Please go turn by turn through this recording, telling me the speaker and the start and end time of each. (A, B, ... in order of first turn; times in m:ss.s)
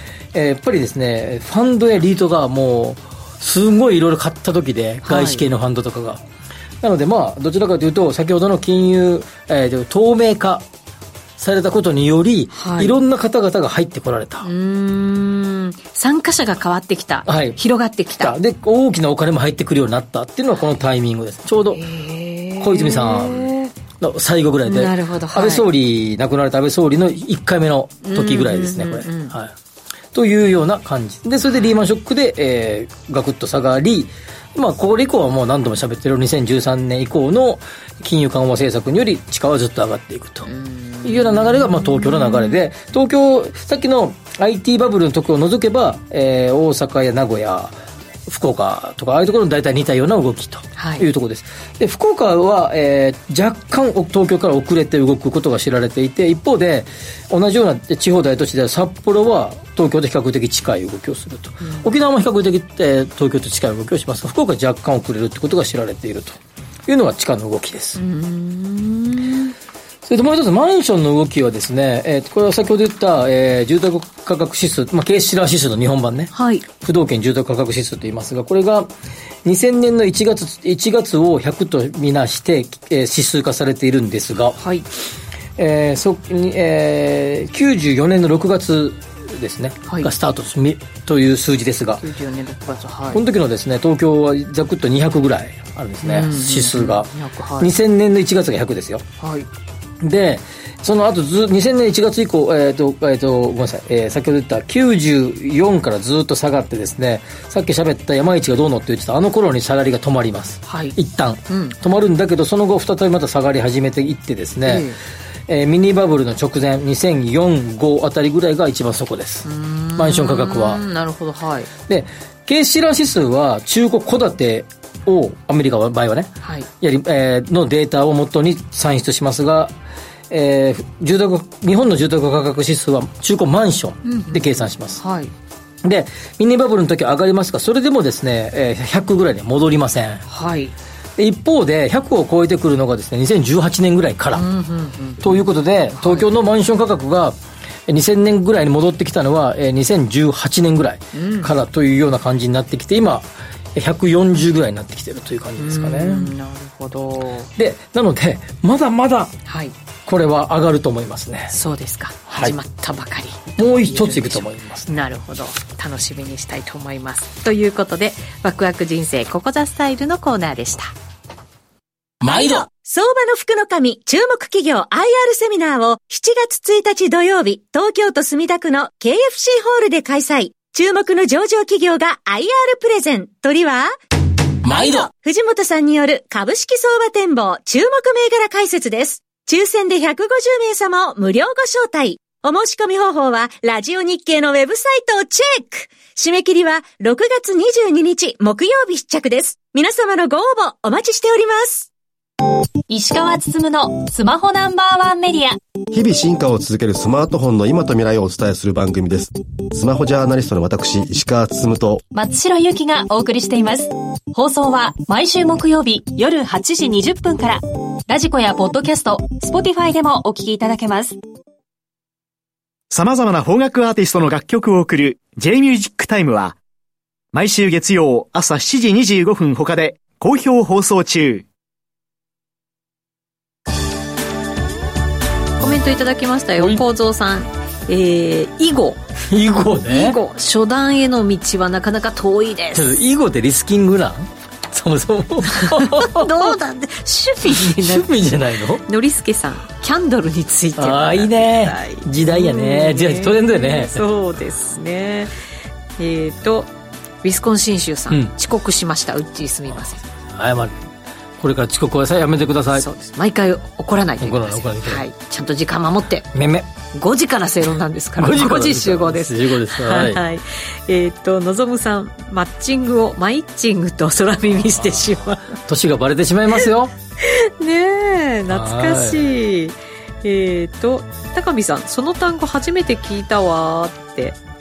0:00.3-0:06.2 A
0:05.0-0:05.4 B
0:06.8-0:10.6 A
0:11.4-0:14.5 A
0:12.5-0:13.0 B
0:14.4-0:18.4 B
0:17.3-0:17.6 A
0:18.2-0:21.8 A
0:21.7-0:23.7 B
0:22.6-0:29.5 A
0:24.6-0:25.7 B
0:28.0-0:29.3 B
0:30.1-0:40.5 A
0:40.5-0:42.6 B
0:41.0-0:47.8 A
0:48.3-1:08.0 A
0:50.8-0:51.1 B
1:01.6-1:01.9 B
1:08.0-1:09.6 B
1:10.0-1:18.9 A
1:16.3-1:16.7 B
1:19.4-1:24.6 A
1:24.6-1:24.9 B
1:25.6-1:32.0 A
1:29.9-1:30.1 B
1:32.0-1:33.2 B
1:33.1-1:39.0 A
1:36.0-1:37.7 B
1:39.2-1:39.5 B
1:40.0-1:54.9 A
1:50.7-1:51.0 B
1:51.5-1:51.8 B
1:54.6-1:55.0 B
1:55.5-2:00.8 A
1:59.4-2:01.7 B
2:01.9-2:09.7 A
2:10.3-2:15.0 A
2:14.0-2:15.3 B
2:15.8-2:20.2 A
2:20.3-2:20.7 B
2:21.2-2:24.5 A
2:24.3-2:25.4 B
2:25.2-2:36.3 A
2:26.0-2:26.3 B
2:31.1-2:31.5 B
2:35.6-2:37.5 B
2:37.6-2:39.4 A
2:39.5-2:39.7 B
2:40.1-2:41.5 A
2:41.5-2:51.0 B
2:42.3-2:42.6 A
2:43.6-2:44.9 A
2:52.2-2:52.7 A
2:52.2-3:03.9 C
3:04.6-3:05.1 A
3:04.7-3:21.9 C
3:22.9-3:25.6 D
3:25.9-3:32.0 E
3:32.1-3:41.2 D
3:42.9-3:46.6 F
3:47.3-3:51.5 F
3:55.6-3:59.0 B
3:59.3-4:00.2 A
3:59.9-4:03.0 B
4:02.7-4:06.5 A
4:05.5-4:08.1 B
4:07.4-4:08.8 A
4:08.8-4:15.3 B
4:10.8-4:14.0 A
4:16.0-4:16.7 B
4:17.2-4:20.0 B
4:20.3-4:20.9 A
4:21.4-4:22.9 A
4:22.7-4:26.3 B
4:24.2-4:25.0 A
4:26.3-4:26.7 A
4:26.9-4:35.6 B
4:28.2-4:30.2 A
4:35.5-4:36.9 A
4:37.2-4:44.4 B
4:38.5-4:39.3 A